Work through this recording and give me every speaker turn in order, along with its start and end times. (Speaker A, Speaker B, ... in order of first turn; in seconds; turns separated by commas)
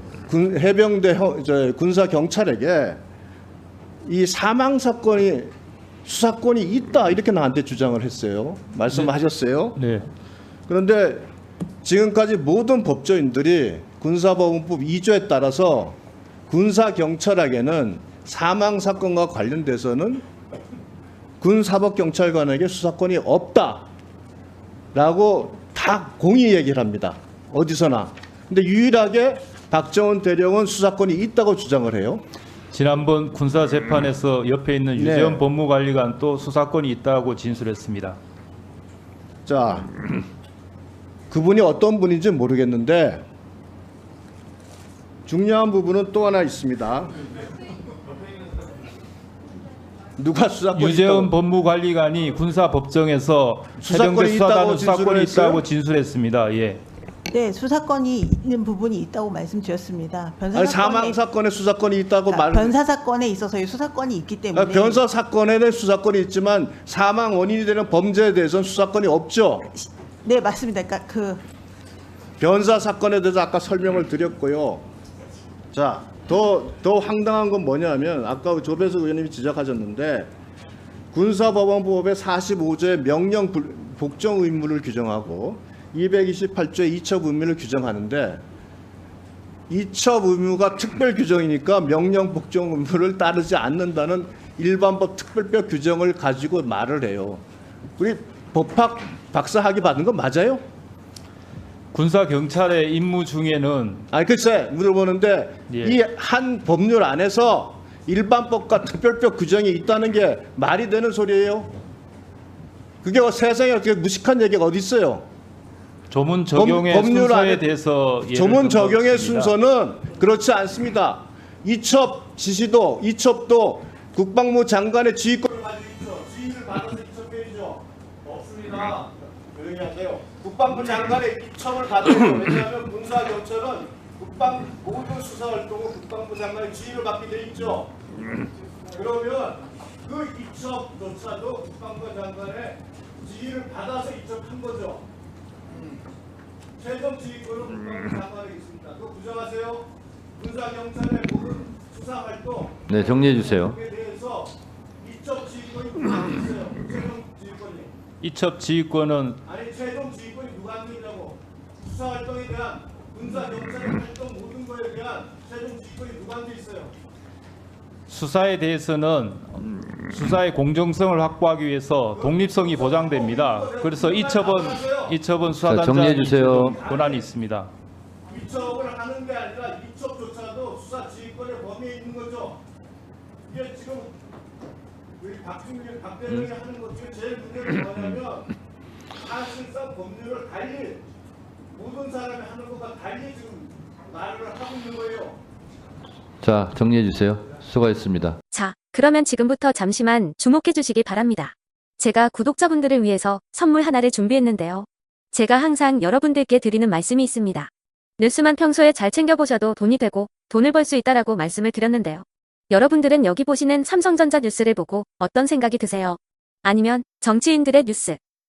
Speaker A: 0.3-3.0, Speaker A: 4.0-5.5, Speaker A: 6.0-9.8, Speaker B: 9.8-10.0, Speaker A: 10.7-11.3, Speaker A: 11.8-16.0, Speaker A: 16.5-20.2, Speaker A: 21.4-23.9, Speaker A: 24.9-32.2, Speaker B: 32.7-38.2, Speaker A: 34.9-35.4, Speaker A: 39.5-39.9, Speaker A: 41.3-43.2, Speaker A: 45.3-47.2, Speaker A: 50.2-51.3, Speaker B: 50.7-56.8, Speaker A: 53.8-55.6, Speaker C: 57.3-61.1, Speaker A: 60.5-62.7, Speaker C: 62.3-65.0, Speaker A: 64.5-69.7, Speaker C: 69.8-71.4, Speaker A: 72.4-74.8, Speaker A: 75.7-80.3, Speaker A: 81.1-88.4, Speaker A: 89.7-97.4, Speaker A: 98.0-100.6, Speaker B: 101.9-104.0, Speaker A: 104.1-111.7, Speaker B: 105.7-106.0, Speaker A: 113.0-115.2, Speaker B: 116.1-119.5, Speaker A: 116.5-117.7, Speaker A: 118.3-138.0, Speaker A: 138.9-145.0, Speaker A: 146.8-157.9, Speaker D: 152.9-153.8, Speaker B: 158.2-159.4, Speaker A: 159.4-166.9, Speaker B: 168.1-177.7, Speaker A: 172.1-175.2, Speaker D: 175.6-176.8, Speaker A: 176.6-177.3, Speaker A: 178.2-182.6, Speaker A: 183.5-184.2, Speaker A: 185.2-188.5, Speaker A: 189.2-191.0, Speaker A: 191.7-195.4, Speaker D: 196.4-198.4, Speaker E: 198.5-218.2